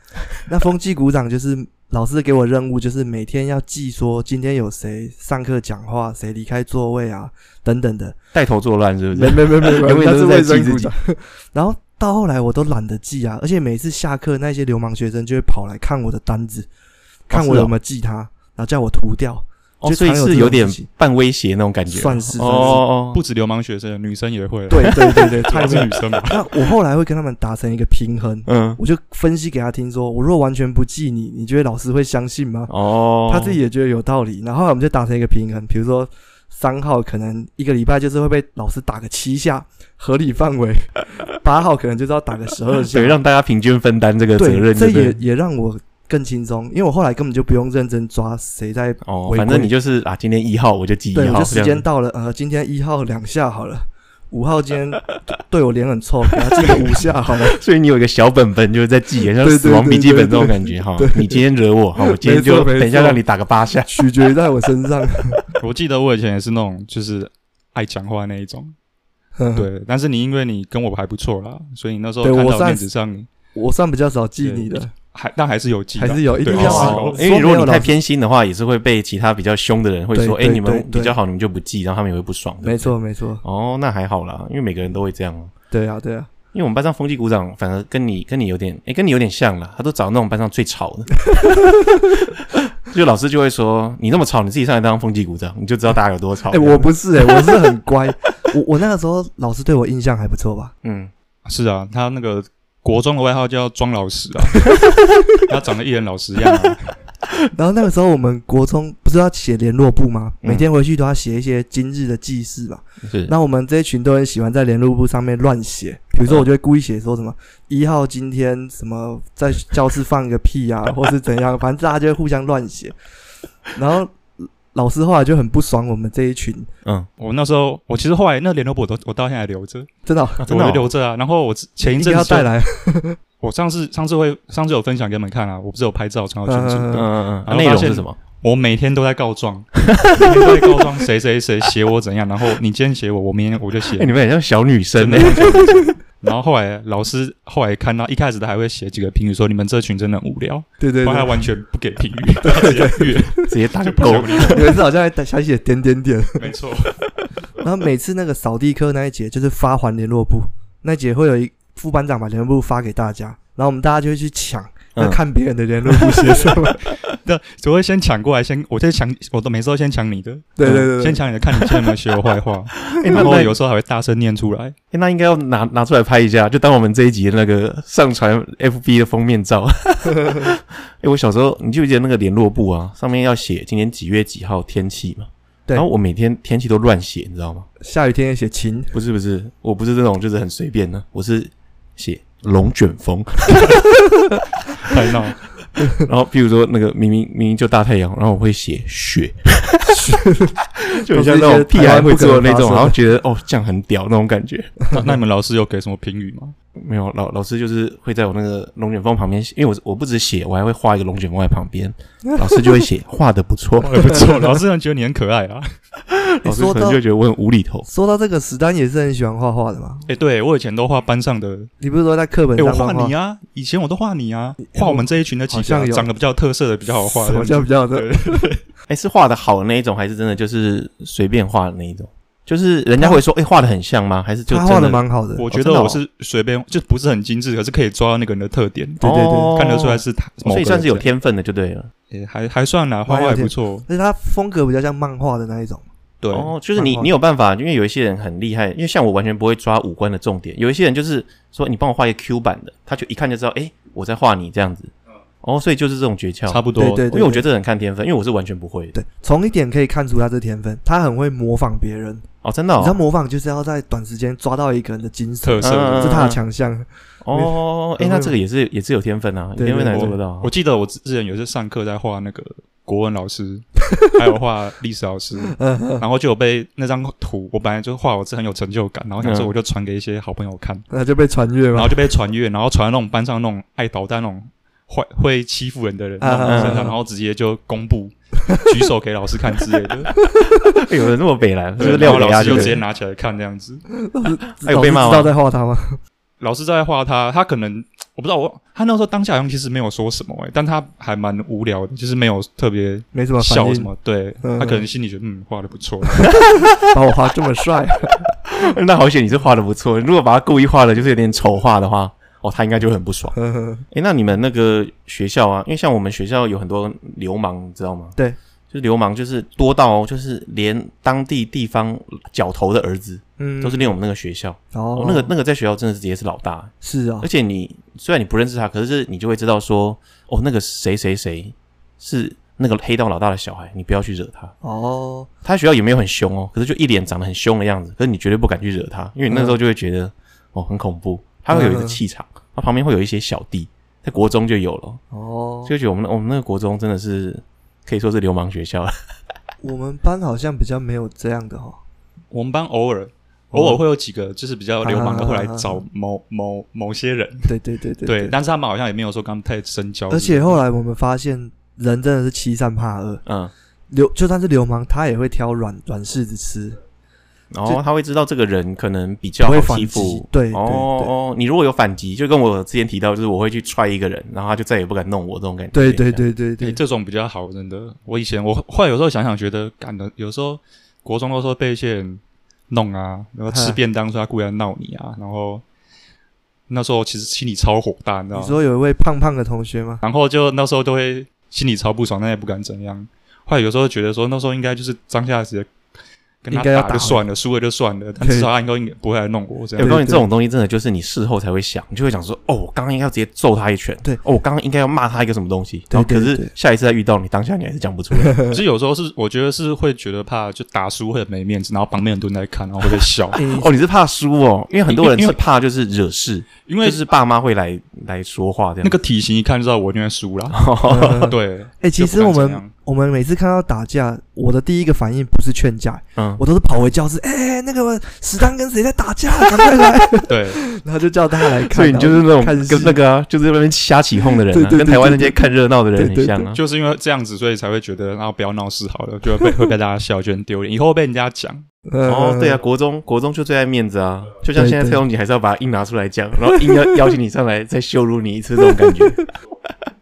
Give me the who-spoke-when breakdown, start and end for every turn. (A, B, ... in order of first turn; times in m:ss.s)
0:00.4-0:08.2 A
0:08.3-0:10.9 B
0:09.1-0:16.7 A
0:17.3-0:20.9 A
0:17.3-0:17.7 B
0:19.8-0:23.2 B
0:21.9-0:22.8 A
0:22.6-0:26.7 C
0:24.7-0:32.7 A
0:28.4-0:28.8 B
0:32.7-0:33.6 B
0:33.3-0:43.2 A
0:42.9-0:45.2 B
0:44.4-0:49.7 A
0:49.0-0:51.8 B
0:51.1-0:57.6 A
0:57.5-1:03.9 B
0:59.4-1:01.4 A
1:02.2-1:03.2 A
1:03.8-1:05.5 A
1:05.6-1:08.7 C
1:09.4-1:09.7 A
1:09.6-1:13.3 C
1:12.2-1:12.8 A
1:13.5-1:14.9 A
1:14.4-1:17.2 C
1:16.0-1:17.9 A
1:16.5-1:25.5 B
1:20.1-1:21.1 A
1:22.6-1:23.4 A
1:25.7-1:26.3 A
1:26.5-1:31.7 B
1:31.2-1:32.1 A
1:32.9-1:36.9 B
1:36.5-1:40.7 A
1:40.8-1:41.1 B
1:41.4-1:47.0 C
1:47.5-2:02.9 A
1:53.0-1:53.3 B
2:03.7-2:06.7 A
2:07.2-2:09.9 C
2:10.0-2:10.4 A
2:10.4-2:10.9 B
2:10.5-2:12.5 C
2:11.8-2:13.2 A
2:13.4-2:24.1 C
2:16.4-2:17.0 A
2:16.9-2:18.2 B
2:19.9-2:20.8 B
2:23.9-2:25.8 B
2:25.0-2:34.8 C
2:30.8-2:31.4 A
2:32.4-2:33.5 A
2:33.5-2:34.8 B
2:34.5-2:36.4 A
2:36.4-2:36.9 C
2:37.6-2:46.8 A
2:47.1-2:54.7 C
2:50.6-2:51.2 A
2:51.5-2:51.9 B
2:52.9-2:53.5 B
2:53.0-2:53.4 A
2:54.9-3:07.7 B
3:07.8-3:08.9 A
3:08.9-3:13.8 B
3:14.8-3:15.4 C
3:16.0-3:20.1 B
3:19.9-3:20.6 A
3:20.8-3:24.7 B
3:21.1-3:23.0 A
3:24.8-3:25.1 A
3:24.9-3:26.5 C
3:26.8-3:34.2 B
3:33.8-3:35.7 C
3:34.1-3:34.6 A
3:36.1-3:37.9 B
3:36.4-3:37.0 A
3:37.9-3:40.0 A
3:40.1-3:41.7 C
3:41.8-3:43.1 A
3:42.6-3:48.6 C
3:44.6-3:46.1 A
3:46.9-3:48.5 A
3:48.9-3:56.0 B
3:54.5-3:55.4 A
3:55.4-3:59.0 C
3:59.0-3:59.6 A
3:59.0-4:01.9 B
3:59.5-4:01.0 C
4:02.1-4:03.8 C
4:03.1-4:05.8 A
4:06.2-4:06.5 C
4:06.3-4:18.9 B
4:06.7-4:07.1 A
4:16.5-4:17.0 C
4:16.8-4:17.4 A
4:18.9-4:22.2 A
4:22.4-4:23.0 B
4:22.8-4:28.3 A
4:25.4-4:26.2 C
4:25.6-4:26.4 B
4:27.2-4:30.5 B
4:29.6-4:30.1 A
4:29.9-4:40.8 C
4:35.4-4:36.0 A
4:39.2-4:39.5 B
4:40.9-4:42.1 A
4:41.7-4:50.1 C
4:46.2-4:46.9 A
4:46.4-4:46.9 B
4:50.6-4:52.8 B
4:51.8-4:53.8 C
4:51.8-4:52.8 A
4:53.9-4:56.0 A
4:54.6-4:55.3 B
4:56.4-5:06.5 C
5:03.1-5:03.9 A
5:04.4-5:04.8 A
5:06.9-5:08.3 A
5:08.5-5:13.4 B
5:13.3-5:13.8 A
5:13.9-5:18.2 B
5:18.7-5:34.5 B
5:23.4-5:23.9 A
5:24.7-5:25.3 A
5:26.8-5:27.3 A
5:34.6-5:35.3 A
5:35.4-5:45.0 B
5:41.5-5:42.0 A
5:45.1-5:45.7 A
5:45.6-5:48.9 B
5:49.6-5:51.8 A
5:52.3-5:57.5 C
5:53.5-5:53.8 A
5:54.8-5:55.8 A
5:57.5-5:58.3 A
5:58.0-6:00.6 C
6:00.1-6:03.2 A
6:03.2-6:03.5 B
6:03.9-6:06.8 A
6:07.5-6:16.2 B
6:09.4-6:11.1 A
6:15.7-6:16.8 A
6:16.6-6:25.6 C
6:23.5-6:23.8 A
6:26.7-6:28.6 C
6:28.3-6:30.0 A
6:30.0-6:35.7 C
6:36.4-6:40.0 C
6:36.5-6:37.2 A
6:38.2-6:38.5 A
6:39.8-6:40.2 A
6:39.8-6:48.5 B
6:45.9-6:46.5 A
6:48.2-6:48.6 A
6:48.5-6:53.4 C
6:53.3-6:53.7 A
6:53.3-6:59.0 B
6:54.9-6:55.4 C
6:56.6-6:57.0 C
6:58.8-7:00.6 C
7:00.5-7:01.3 B
7:00.9-7:13.0 A
7:01.1-7:02.7 C
7:06.2-7:06.4 B
7:10.3-7:10.6 C
7:11.7-7:16.6 B
7:14.5-7:15.4 A
7:16.0-7:16.4 A
7:16.5-7:21.6 C
7:21.9-7:22.6 A
7:22.0-7:29.2 B
7:24.5-7:25.0 A
7:26.5-7:26.9 A